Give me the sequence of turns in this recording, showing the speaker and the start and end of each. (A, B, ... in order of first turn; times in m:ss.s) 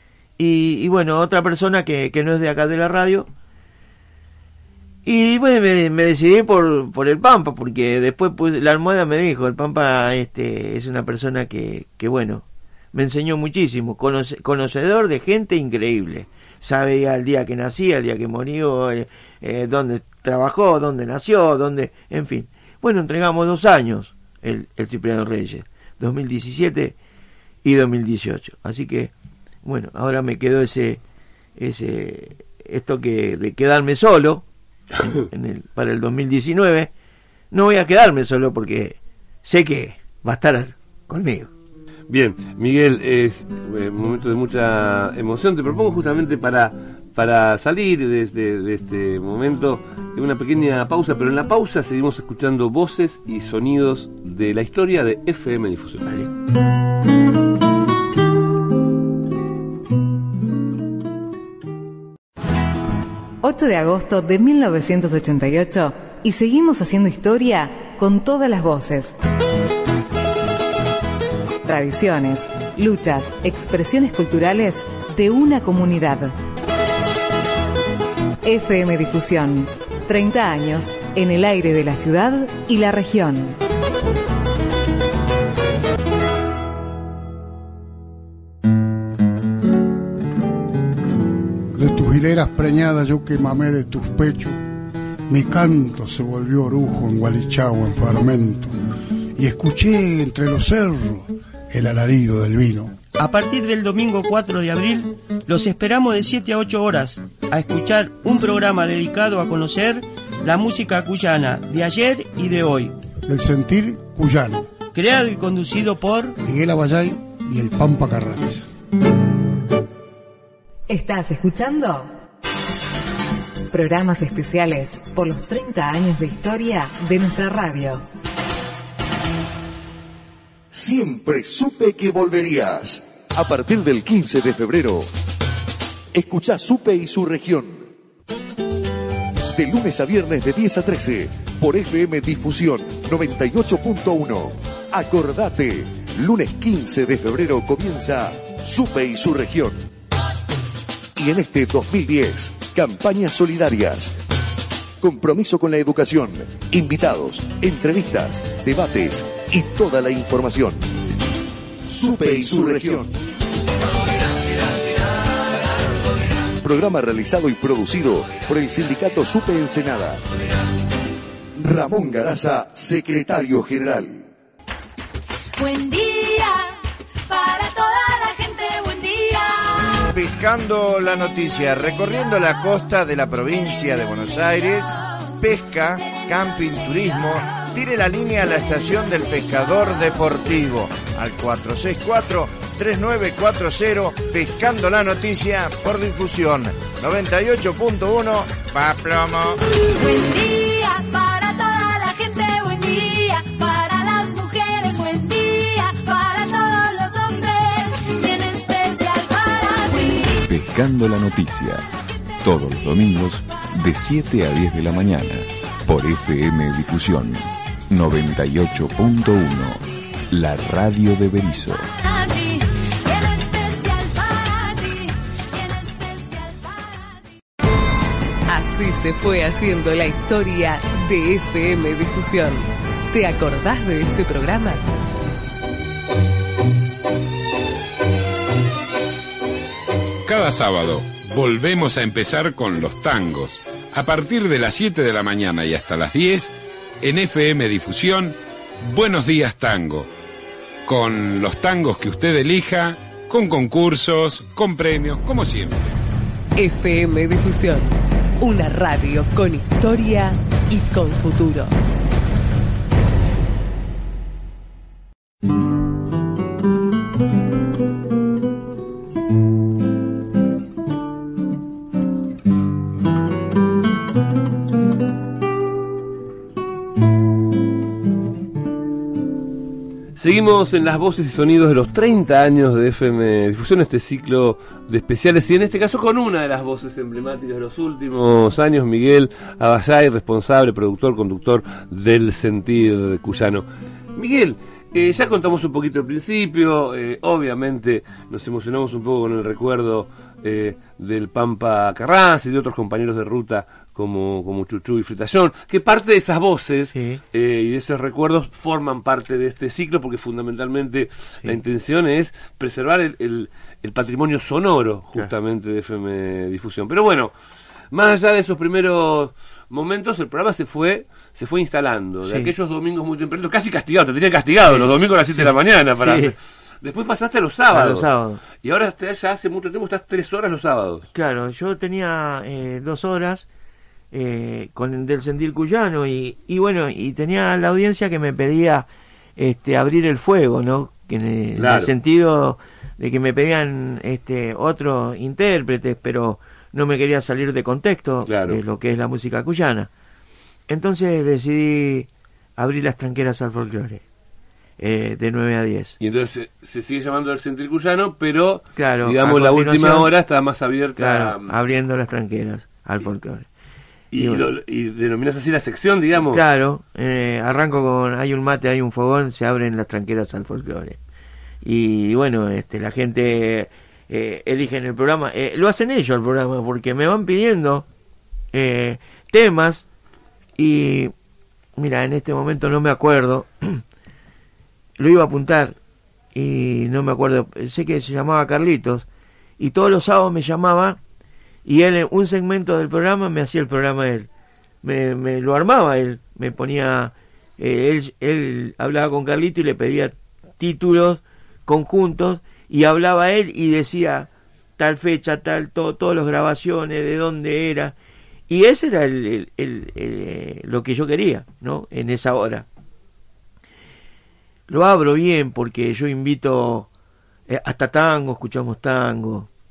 0:00.4-0:03.3 A
0:05.0-0:27.0 A
0:27.6-0:29.1 A
0:29.6-0:31.0 A
0:31.6-0:34.4 A
0:35.1-0:36.9 A
0:37.5-0:41.5 A
0:42.1-0:56.1 B
1:03.4-1:09.1 C
1:11.6-1:16.3 C
1:18.4-1:23.6 C
1:31.7-1:34.6 D
1:35.3-1:38.7 D
1:39.4-1:43.0 D
1:43.2-1:52.9 E
1:53.2-1:54.6 D
1:54.9-1:56.4 E
1:56.4-1:58.6 D
2:00.9-2:02.1 C
2:03.7-2:08.0 C
2:10.7-2:15.1 F
2:16.1-2:17.8 F
2:19.5-2:29.8 F
2:31.2-2:34.1 F
2:35.0-2:40.8 F
2:41.9-2:43.2 F
2:46.6-2:50.2 F
2:51.6-2:54.2 F
2:55.6-2:56.7 G
2:57.3-2:59.8 G
3:00.1-3:19.6 H
3:19.9-3:30.5 G
3:30.4-3:31.8 I
3:32.4-3:41.9 I
3:42.0-3:47.1 G
3:48.5-3:54.8 J
4:00.2-4:10.1 K
4:10.8-4:15.9 K
4:16.6-4:21.7 J
4:40.2-5:17.3 B
5:06.9-5:07.2 A
5:17.9-5:28.1 B
5:24.7-5:26.3 A
5:27.7-5:28.4 A
5:28.6-5:31.1 B
5:31.1-5:33.5 A
5:34.1-5:49.9 A
5:41.6-5:41.9 B
5:48.3-5:48.6 B
5:50.7-5:54.0 A
5:54.8-5:56.0 A
5:56.0-6:01.5 B
5:58.8-6:00.1 A
6:01.0-6:03.4 A
6:04.1-6:06.4 B
6:04.2-6:04.4 A
6:06.3-6:11.0 A
6:11.6-6:17.8 A
6:18.5-6:19.8 A
6:20.6-6:21.1 A
6:21.8-6:23.8 A
6:25.0-6:25.8 A
6:26.3-6:29.0 A
6:29.6-6:31.0 A
6:31.6-6:34.3 A
6:34.8-6:47.9 A
6:48.5-6:52.6 A
6:54.7-6:56.9 A
6:57.5-6:59.5 A